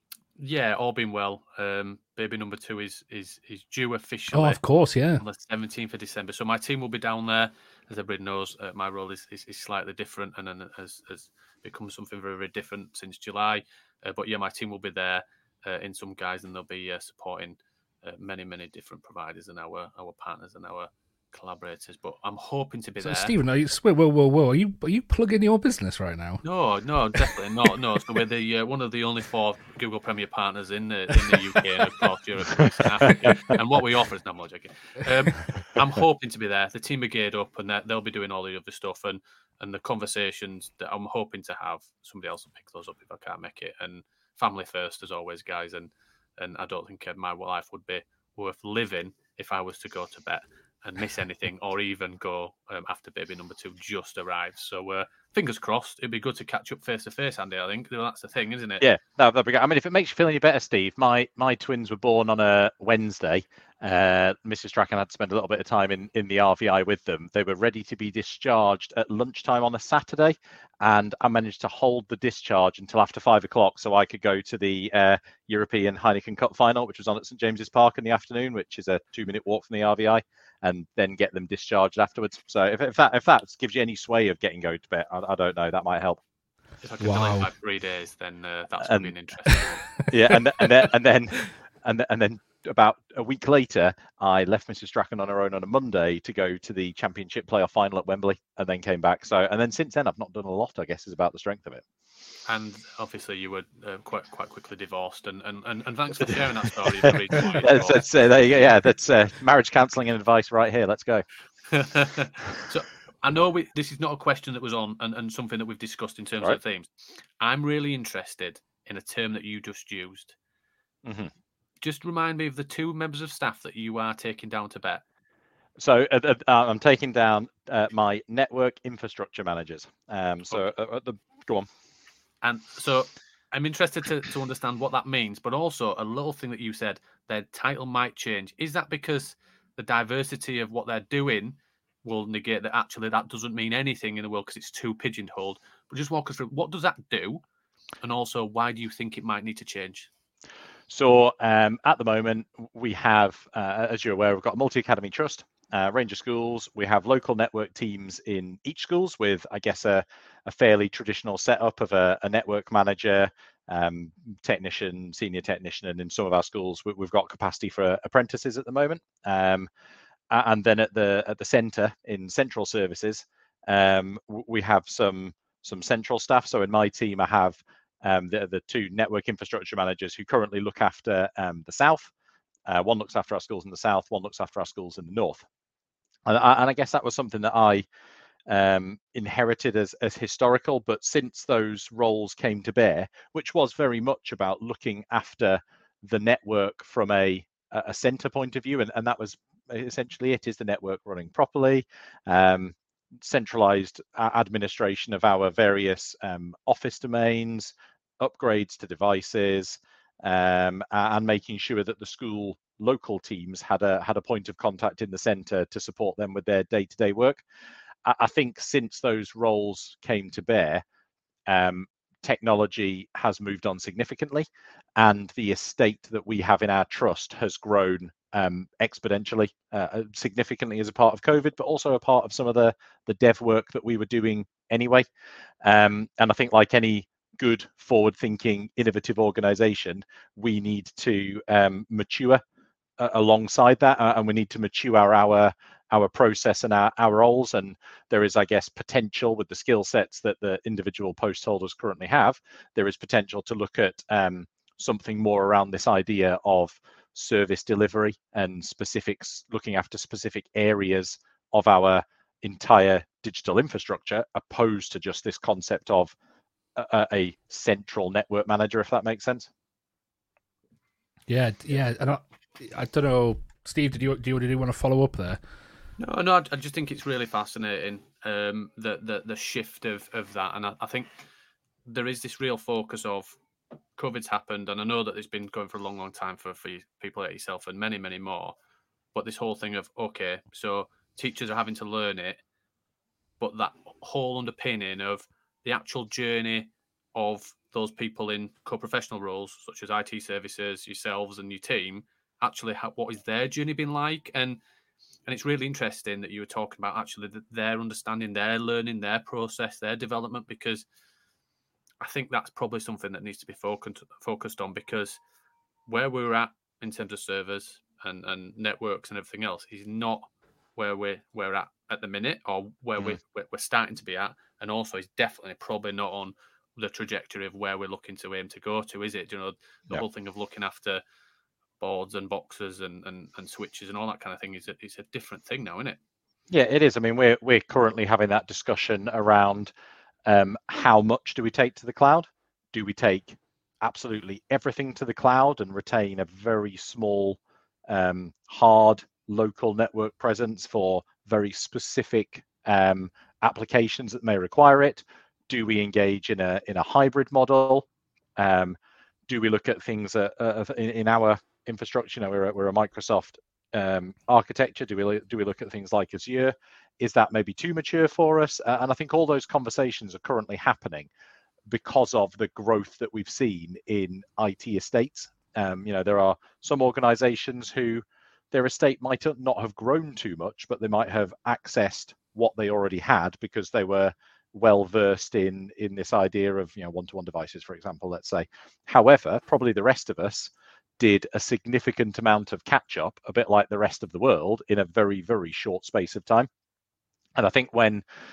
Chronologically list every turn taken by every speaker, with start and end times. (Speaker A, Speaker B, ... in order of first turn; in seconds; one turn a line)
Speaker A: 0.4-4.6
Speaker B: 4.3-5.2
Speaker A: 5.2-23.3
Speaker B: 23.0-26.4
Speaker A: 26.4-58.9
Speaker C: 32.6-32.9
Speaker C: 58.8-86.2
Speaker A: 86.8-90.0
Speaker B: 87.0-87.5
Speaker C: 88.8-89.1
Speaker C: 90.1-101.8
Speaker A: 102.5-108.1
Speaker C: 106.2-111.2
Speaker A: 111.7-120.4
Speaker C: 121.0-121.3
Speaker A: 121.8-125.0
Speaker C: 125.8-131.7
Speaker A: 132.4-147.4
Speaker A: 148.0-150.1
Speaker C: 150.9-169.7
Speaker C: 170.3-182.1
Speaker C: 182.7-185.4
Speaker C: 186.2-187.8
Speaker C: 188.5-217.4
Speaker C: 218.1-220.8
Speaker C: 221.5-224.5
Speaker C: 225.0-235.1
Speaker C: 235.6-242.4
Speaker C: 243.0-266.1
Speaker C: 266.8-269.5
Speaker B: 271.3-275.4
Speaker A: 276.0-281.1
Speaker A: 281.9-283.4
Speaker A: 284.0-288.6
Speaker A: 289.1-292.4
Speaker A: 293.4-304.6
Speaker A: 305.3-310.8
Speaker A: 312.0-315.2
Speaker A: 315.9-331.0
Speaker A: 331.8-336.0
Speaker C: 336.5-339.7
Speaker C: 340.3-357.9
Speaker C: 358.4-358.8
Speaker C: 359.3-371.1
Speaker C: 371.7-396.5
Speaker C: 397.4-398.0